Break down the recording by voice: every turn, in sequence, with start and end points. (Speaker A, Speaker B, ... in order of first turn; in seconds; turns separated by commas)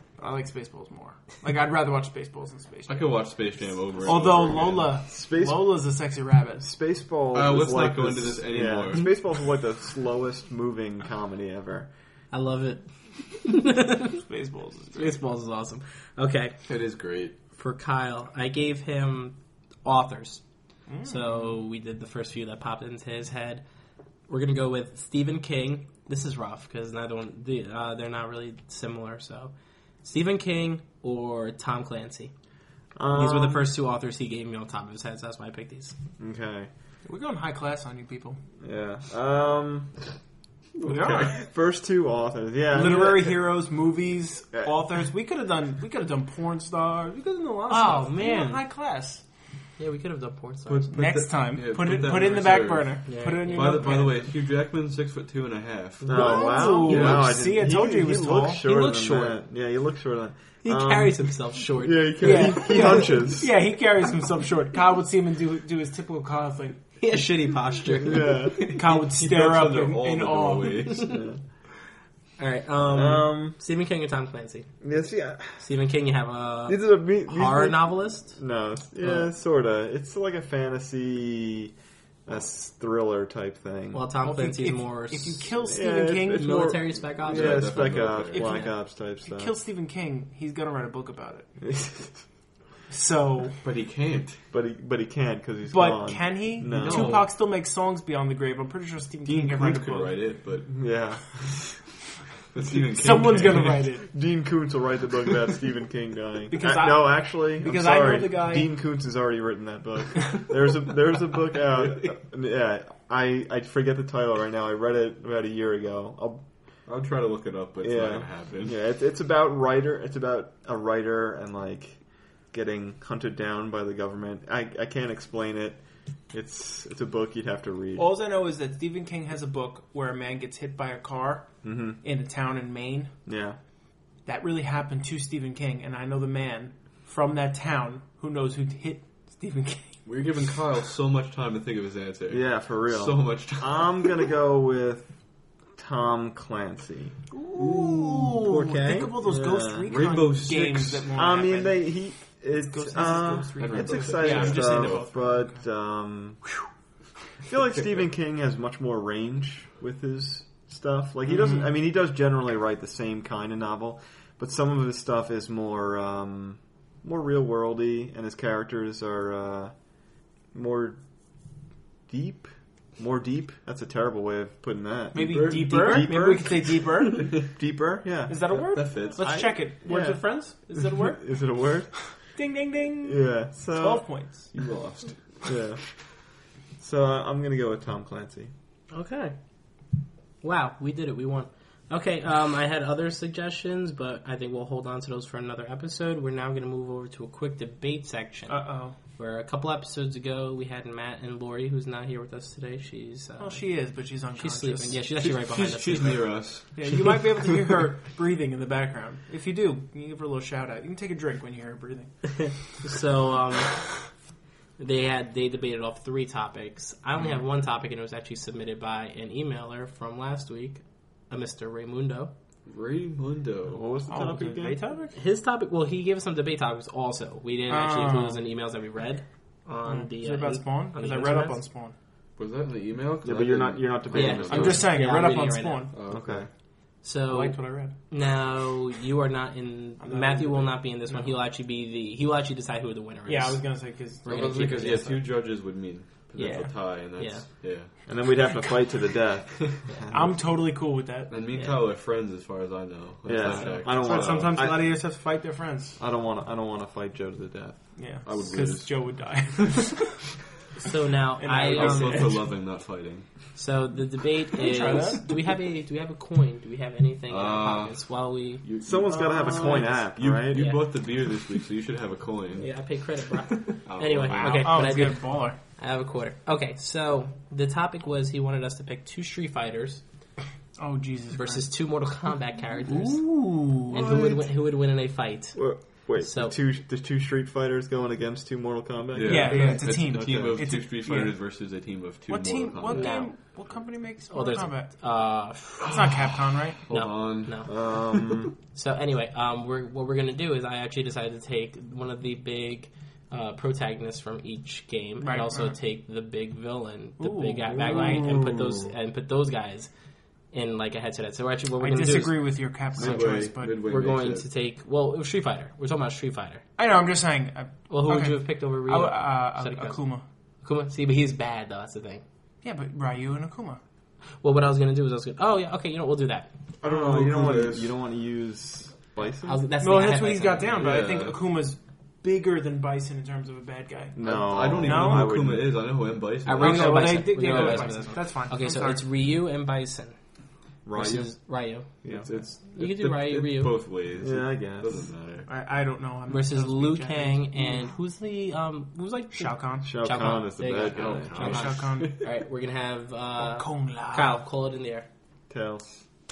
Speaker A: 0.2-3.4, Speaker B: 2.9-4.9, Speaker A: 4.0-6.7, Speaker C: 5.1-5.8, Speaker C: 6.6-11.9, Speaker B: 7.3-9.1, Speaker D: 12.3-14.2, Speaker A: 14.2-15.2, Speaker D: 14.9-16.6, Speaker B: 16.7-17.4, Speaker D: 17.5-20.4, Speaker A: 20.9-21.5, Speaker D: 21.1-23.6, Speaker D: 24.3-32.3, Speaker C: 33.0-33.7, Speaker D: 33.1-36.0, Speaker C: 36.2-36.7, Speaker A: 37.0-38.4, Speaker C: 38.6-40.0, Speaker B: 40.8-41.3, Speaker A: 40.9-41.4, Speaker C: 40.9-43.5, Speaker A: 42.7-49.2, Speaker D: 47.7-48.6, Speaker D: 49.8-51.0, Speaker B: 50.7-56.3, Speaker A: 50.9-54.2, Speaker D: 53.1-54.0, Speaker D: 56.0-57.2, Speaker C: 56.1-63.5, Speaker A: 56.1-58.7, Speaker B: 56.9-57.3, Speaker D: 58.6-59.4, Speaker D: 60.6-63.0, Speaker A: 62.2-66.8, Speaker D: 67.0-68.8, Speaker C: 68.0-68.7, Speaker A: 68.7-70.9, Speaker B: 68.8-71.1, Speaker C: 71.1-71.4, Speaker D: 72.4-74.7, Speaker C: 72.8-73.6, Speaker C: 74.8-75.6, Speaker D: 75.6-78.4, Speaker C: 76.7-81.7, Speaker D: 79.0-79.3, Speaker C: 82.3-84.0, Speaker D: 83.9-85.6, Speaker A: 84.2-86.8, Speaker C: 85.7-89.5, Speaker D: 86.3-88.8, Speaker B: 87.2-88.5, Speaker A: 88.3-88.7, Speaker A: 89.2-91.5, Speaker C: 91.6-92.2, Speaker A: 92.9-93.6, Speaker B: 93.6-94.4, Speaker C: 94.5-97.2, Speaker A: 95.7-100.2, Speaker B: 96.7-97.3, Speaker B: 99.2-100.8, Speaker C: 100.7-101.8, Speaker B: 102.5-103.9, Speaker A: 102.9-104.1, Speaker C: 104.1-116.4, Speaker A: 106.5-108.7, Speaker B: 116.9-118.8, Speaker C: 117.8-128.1, Speaker A: 128.0-133.1, Speaker C: 131.6-132.0, Speaker C: 133.3-133.6, Speaker A: 134.2-140.0, Speaker B: 140.1-144.1, Speaker C: 142.3-145.1, Speaker C: 145.8-147.2, Speaker A: 147.3-151.9, Speaker B: 147.6-148.4, Speaker D: 148.3-149.2, Speaker C: 149.2-149.9, Speaker B: 149.9-151.1, Speaker C: 151.1-156.6, Speaker A: 152.6-155.6, Speaker B: 153.6-155.1, Speaker C: 157.5-169.8, Speaker A: 161.3-161.7, Speaker C: 170.5-171.0, Speaker C: 172.1-182.4, Speaker A: 175.1-177.5, Speaker B: 175.2-176.1, Speaker A: 178.3-181.4, Speaker B: 178.6-179.4, Speaker A: 182.2-184.6, Speaker C: 183.0-184.3, Speaker B: 184.5-185.4, Speaker C: 185.5-186.2, Speaker C: 186.8-188.5, Speaker D: 188.9-189.3, Speaker D: 190.4-206.3, Speaker A: 198.5-199.0, Speaker A: 203.4-205.0, Speaker B: 205.2-207.2, Speaker A: 206.8-212.8, Speaker D: 212.3-214.1, Speaker D: 214.8-222.3, Speaker B: 222.7-223.8, Speaker C: 223.7-224.8, Speaker A: 224.1-225.2, Speaker D: 225.2-231.6, Speaker A: 227.7-228.4, Speaker A: 229.9-231.9, Speaker B: 232.4-234.9, Speaker C: 233.2-234.9, Speaker D: 234.1-235.9, Speaker A: 234.5-235.9, Speaker B: 235.9-236.5, Speaker C: 236.1-236.5, Speaker D: 237.0-245.2, Speaker A: 237.3-237.9, Speaker A: 240.0-241.4, Speaker A: 243.3-245.1, Speaker B: 244.3-247.9, Speaker D: 246.4-247.4, Speaker C: 248.1-250.4, Speaker A: 250.1-251.3, Speaker B: 251.3-254.6, Speaker D: 251.5-251.8, Speaker C: 253.2-255.1, Speaker D: 253.5-253.8, Speaker A: 253.9-256.0, Speaker C: 256.0-258.2, Speaker A: 258.0-260.1, Speaker B: 258.2-259.9, Speaker D: 260.8-262.4, Speaker A: 261.4-262.4, Speaker B: 261.6-263.5, Speaker D: 263.6-268.6, Speaker A: 264.6-265.3, Speaker B: 267.3-268.1, Speaker B: 268.6-272.7, Speaker C: 268.8-270.7, Speaker A: 269.0-270.0, Speaker D: 270.5-270.9, Speaker D: 272.6-280.0, Speaker B: 273.8-274.7, Speaker A: 274.3-275.6, Speaker A: 280.8-281.7, Speaker D: 281.4-286.6, Speaker A: 282.9-284.3, Speaker C: 285.6-290.6, Speaker B: 289.1-293.2, Speaker A: 289.2-291.4, Speaker A: 292.3-295.0, Speaker D: 292.9-293.4, Speaker D: 294.3-296.0, Speaker A: 295.8-296.8, Speaker B: 296.9-298.0, Speaker D: 296.9-298.1, Speaker C: 297.7-298.5, Speaker D: 298.7-309.9, Speaker A: 305.2-305.8, Speaker A: 307.2-308.2, Speaker B: 307.8-308.9, Speaker D: 310.5-316.6, Speaker A: 311.8-313.8, Speaker B: 312.9-314.5, Speaker A: 316.8-320.2, Speaker D: 317.9-320.1, Speaker D: 320.6-322.2, Speaker A: 322.6-323.8, Speaker D: 324.4-326.5, Speaker C: 326.8-329.6, Speaker B: 326.9-327.9, Speaker D: 329.4-330.9, Speaker A: 329.8-335.3, Speaker B: 330.8-331.4, Speaker C: 334.1-335.8, Speaker B: 334.3-338.0, Speaker D: 336.4-340.2, Speaker A: 336.6-339.1, Speaker C: 340.9-341.4, Speaker D: 340.9-343.8, Speaker C: 342.0-342.3, Speaker B: 342.1-345.5, Speaker C: 344.2-345.1, Speaker A: 345.5-347.9, Speaker D: 346.3-355.1, Speaker A: 349.3-350.0, Speaker C: 349.8-351.6, Speaker B: 350.9-352.1, Speaker A: 351.3-352.2, Speaker A: 353.4-354.4, Speaker C: 355.5-356.0